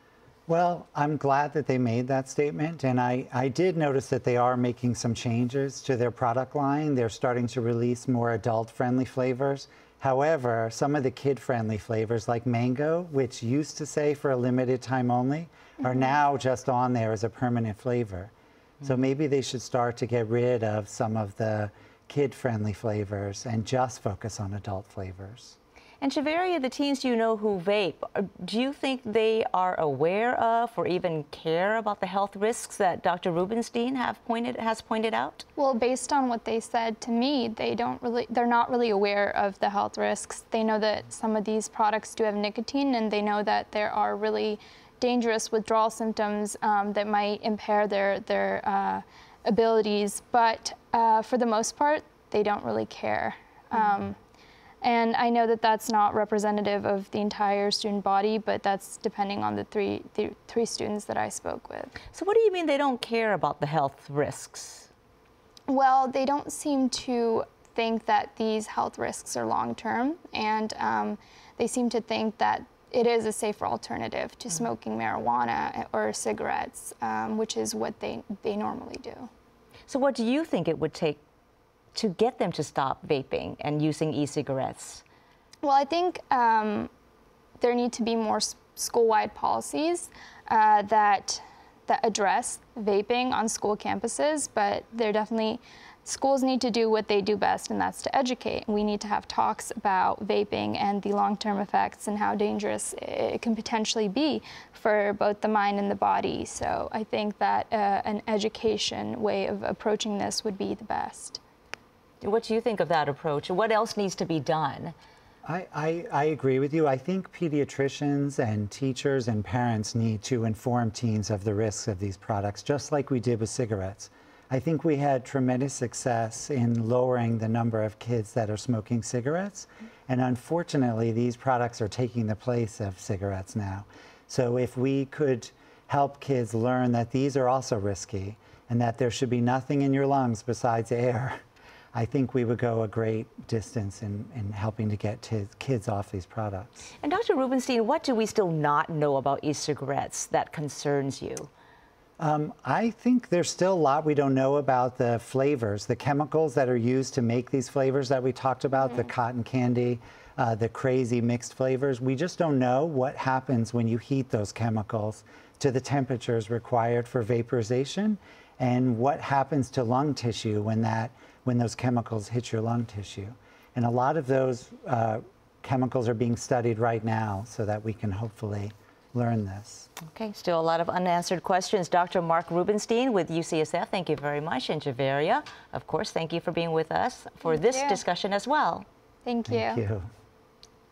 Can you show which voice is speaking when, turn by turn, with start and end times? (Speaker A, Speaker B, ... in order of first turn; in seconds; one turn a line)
Speaker A: 0.5-25.6
Speaker B: 26.0-35.4
Speaker C: 35.6-54.2
Speaker C: 54.8-61.9
Speaker B: 62.1-64.9
Speaker C: 65.7-79.3
Speaker B: 79.9-81.2
Speaker B: 81.9-85.0
Speaker C: 85.6-86.9
Speaker C: 87.6-111.4
Speaker B: 112.2-114.9
Speaker A: 115.4-141.4
Speaker A: 141.9-146.9
Speaker B: 147.0-151.5
Speaker A: 152.2-179.9
Speaker B: 180.1-188.8
Speaker C: 187.4-188.0
Speaker C: 189.2-189.8
Speaker A: 189.5-190.1